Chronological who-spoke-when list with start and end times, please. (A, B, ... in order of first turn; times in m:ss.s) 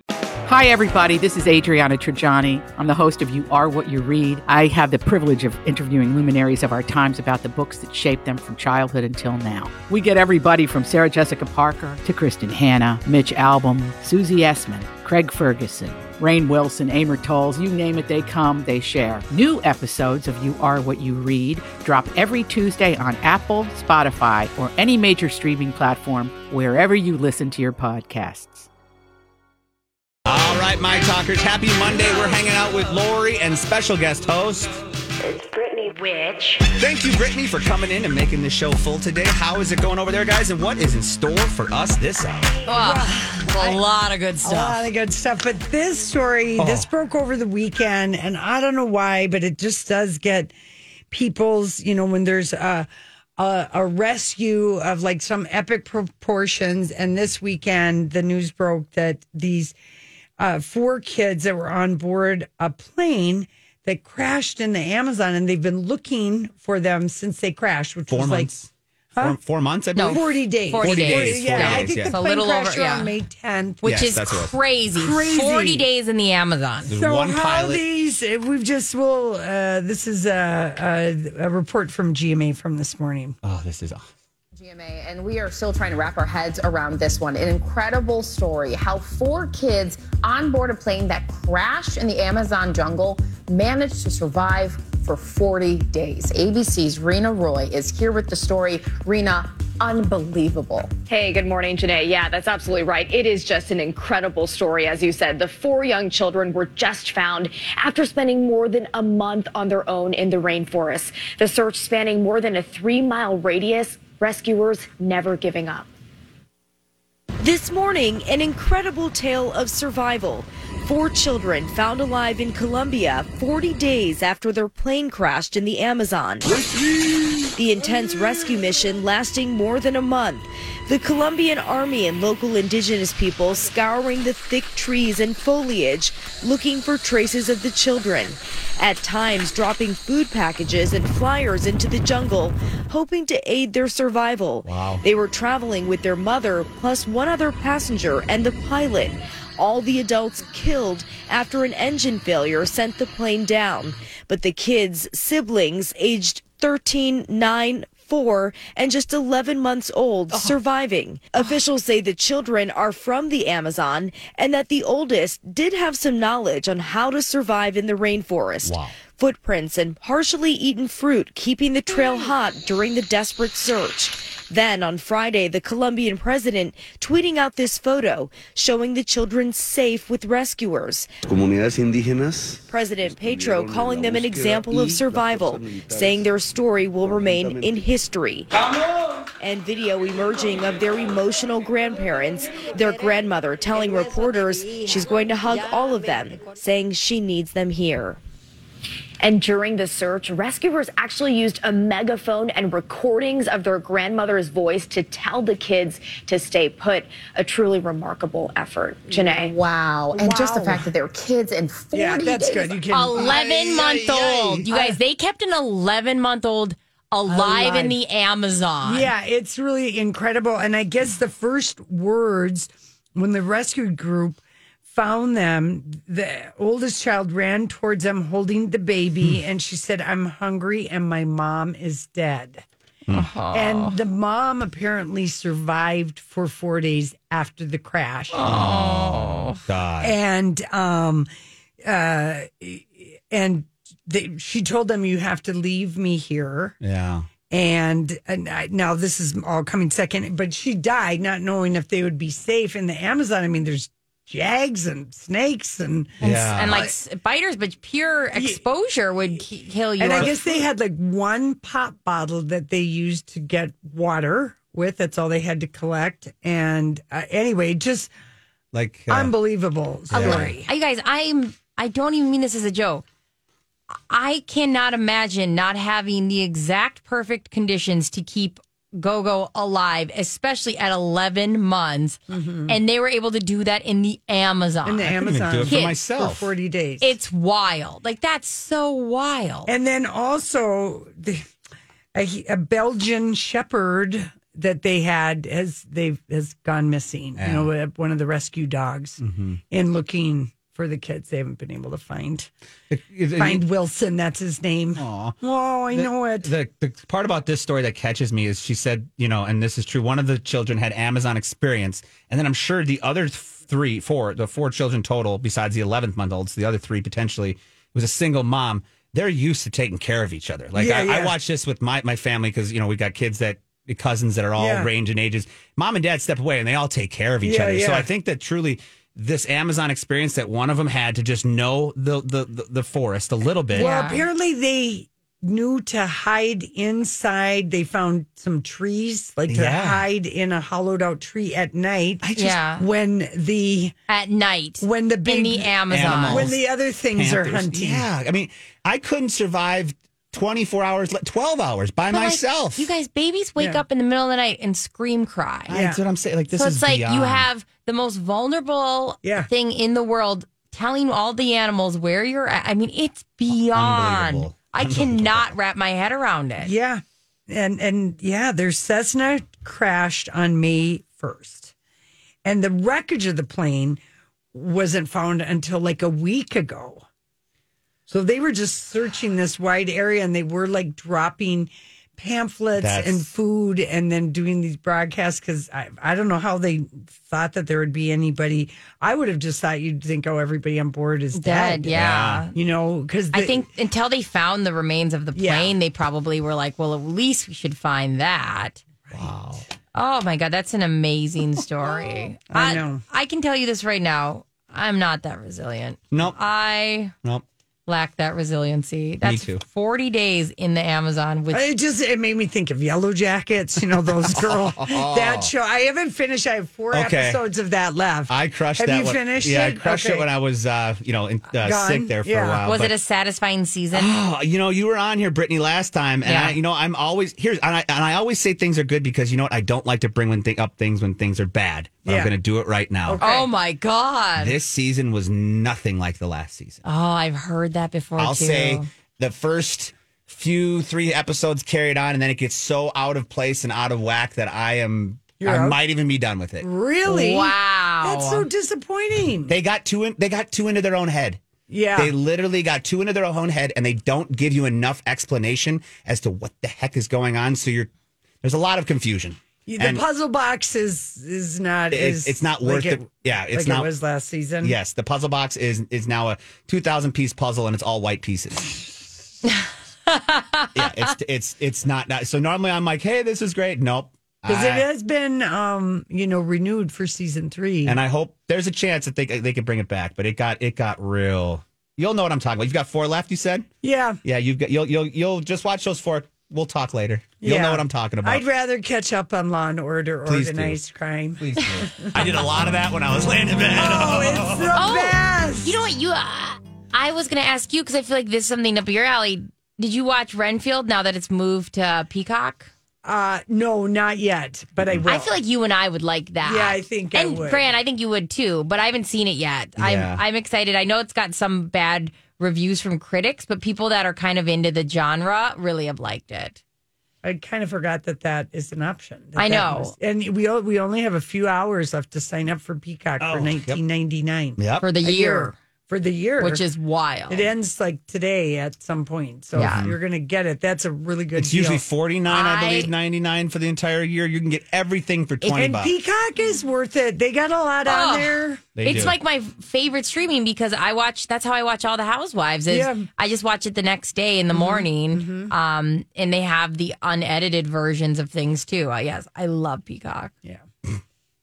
0:00.4-0:28.7 A
0:30.3-0:34.8 B
0:35.2-0:35.9 C
0:36.1-0:36.5 D
0:36.7-0:42.5 B
0:42.7-0:44.9 D
0:42.7-0:43.8 E
0:44.4-0:50.5 E
0:46.6-0:46.9 B
0:51.1-0:59.8 E
1:00.4-1:08.5 E
1:08.1-1:12.2 B
1:10.0-1:13.1 D
1:10.1-1:14.0 E
1:13.8-1:16.9 D
1:13.8-1:14.5 B
1:14.9-1:15.8 E
1:16.9-1:17.8 B
1:16.9-1:23.4 E
1:23.4-1:24.1 B
1:24.5-1:40.9 F
1:41.1-1:55.9 G
1:57.4-2:06.6 C
2:07.6-3:01.1 C
2:24.6-2:25.0 B
2:48.6-2:48.9 B
3:01.3-3:06.3 H
3:02.7-3:08.5 C
3:07.0-3:07.9 H
3:09.4-3:18.2 C
3:19.2-3:29.5 G
3:29.1-3:32.8 F
3:30.1-3:30.9 E
3:31.9-3:33.4 E
3:32.9-3:39.1 D
3:33.2-3:34.7 B
3:37.3-3:38.0 E
3:38.8-3:52.6 E
3:53.1-3:54.0 D
3:53.5-3:58.4 E
3:58.3-3:59.6 D
3:58.4-4:00.2 B
4:00.0-4:01.3 E
4:01.8-4:06.8 E
4:06.8-4:07.3 B
4:07.5-4:16.9 E
4:16.2-4:16.9 B
4:16.2-4:20.3 D
4:18.4-4:18.6 E
4:20.0-4:28.1 E
4:28.7-4:29.3 B
4:29.1-4:30.7 E
4:30.1-4:30.5 B
4:30.2-4:33.0 D
4:34.1-4:46.0 D
4:42.3-4:42.8 E
4:44.8-4:47.2 E
4:45.2-4:46.5 B
4:47.0-4:49.7 D
4:49.7-4:51.5 E
4:52.1-5:02.5 E
4:57.4-4:57.7 B
4:59.2-4:59.6 B
5:02.9-5:03.6 B
5:03.4-5:06.5 E
5:05.0-5:05.4 B
5:05.9-5:33.9 B
5:20.8-5:21.4 E
5:24.6-5:24.9 E
5:27.4-5:28.1 E
5:33.7-5:34.2 D
5:33.7-5:44.0 E
5:39.5-5:40.0 B
5:42.2-5:42.6 B
5:42.4-5:42.8 D
5:44.1-5:46.5 D
5:44.8-5:45.8 E
5:45.9-5:46.6 B
5:46.3-5:48.1 E
5:47.1-5:52.9 B
5:52.1-5:55.8 D
5:53.6-5:53.8 E
5:55.7-5:56.0 E
5:55.7-5:57.5 B
5:56.5-6:06.7 D
5:59.2-5:59.5 E
6:03.6-6:05.5 B
6:06.6-6:11.7 E
6:12.4-6:14.0 E
6:14.5-6:17.1 E
6:18.1-6:32.0 E
6:22.8-6:23.3 B
6:31.3-6:32.5 D
6:31.9-6:32.5 B
6:32.5-6:33.7 E
6:33.3-6:38.8 D
6:35.4-6:35.8 E
6:39.1-6:39.6 B
6:40.0-6:47.1 D
6:42.5-6:43.0 E
6:46.1-6:46.4 B
6:47.9-6:51.6 D
6:49.2-6:49.6 B
6:51.5-7:00.3 E
6:54.3-6:55.5 B
6:56.9-6:57.4 B
6:58.3-7:03.0 B
7:01.5-7:02.6 E
7:02.7-7:04.1 D
7:03.9-7:13.2 B
7:06.2-7:06.6 D
7:12.1-7:12.3 E
7:13.1-7:13.5 E
7:13.2-7:14.6 D
7:14.4-7:16.8 B
7:16.8-7:18.9 D
7:18.2-7:26.7 B
7:25.4-7:25.8 E
7:26.6-7:29.6 E
7:27.1-7:28.5 D
7:29.5-7:31.4 B
7:31.7-7:32.1 E
7:32.0-7:37.9 B
7:38.4-7:40.0 B
7:39.7-7:44.8 E
7:41.9-7:43.9 B
7:44.6-7:49.1 B
7:50.1-7:50.8 D
7:50.7-7:54.8 B
7:54.5-7:58.0 E
7:57.8-8:03.7 B
8:03.8-8:04.2 E
8:04.2-8:08.4 B
8:07.4-8:12.4 E
8:10.3-8:10.8 B
8:11.4-8:14.8 B
8:13.7-8:15.8 E
8:14.8-8:22.7 D
8:23.0-8:25.3 E
8:25.0-8:36.6 D
8:26.4-8:27.7 E
8:29.8-8:30.2 B
8:37.2-8:46.6 E
8:39.4-8:39.9 D
8:43.2-8:43.8 B
8:44.6-8:44.9 B
8:44.8-8:45.6 D
8:46.4-8:47.5 D
8:47.3-8:51.8 E
8:49.6-8:49.9 D
8:49.6-8:50.0 B
8:51.4-8:55.9 B
8:52.3-8:52.9 D
8:55.4-8:58.7 E
8:57.9-9:10.3 D
8:58.8-8:59.2 B
9:02.7-9:03.1 E
9:04.5-9:05.5 E